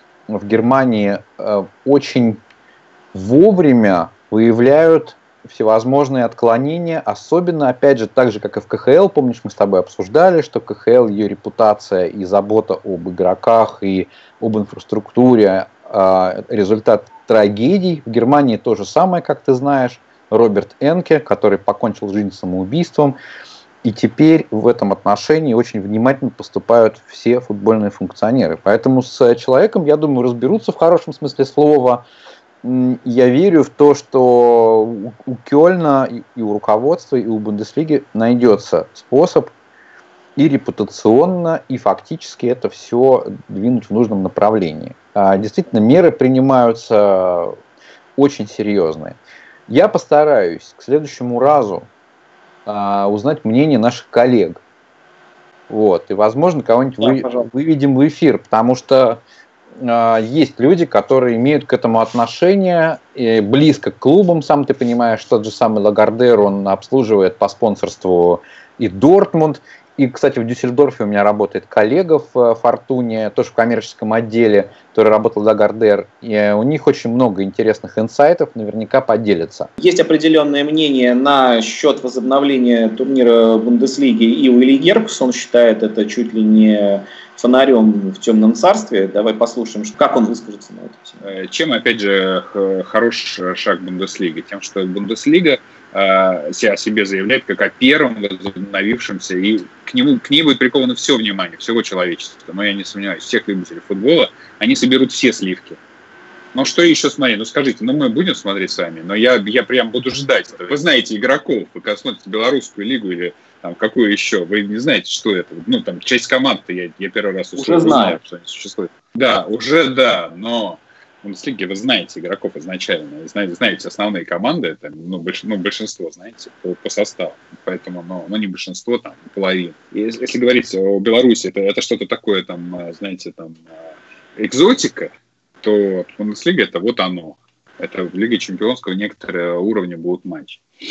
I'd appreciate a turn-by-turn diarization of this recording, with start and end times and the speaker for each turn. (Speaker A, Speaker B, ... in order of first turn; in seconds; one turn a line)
Speaker A: 0.3-2.4
Speaker A: 3.1-23.2
Speaker A: 23.8-32.0
Speaker A: 32.6-39.5
Speaker A: 40.4-47.6
Speaker A: 48.2-51.9
Speaker A: 52.7-54.6
Speaker A: 55.7-59.2
Speaker B: 57.0-57.5
Speaker A: 59.8-79.7
Speaker B: 79.8-91.2
Speaker C: 91.2-105.8
Speaker C: 106.5-133.6
Speaker B: 117.6-118.2
Speaker C: 134.4-140.6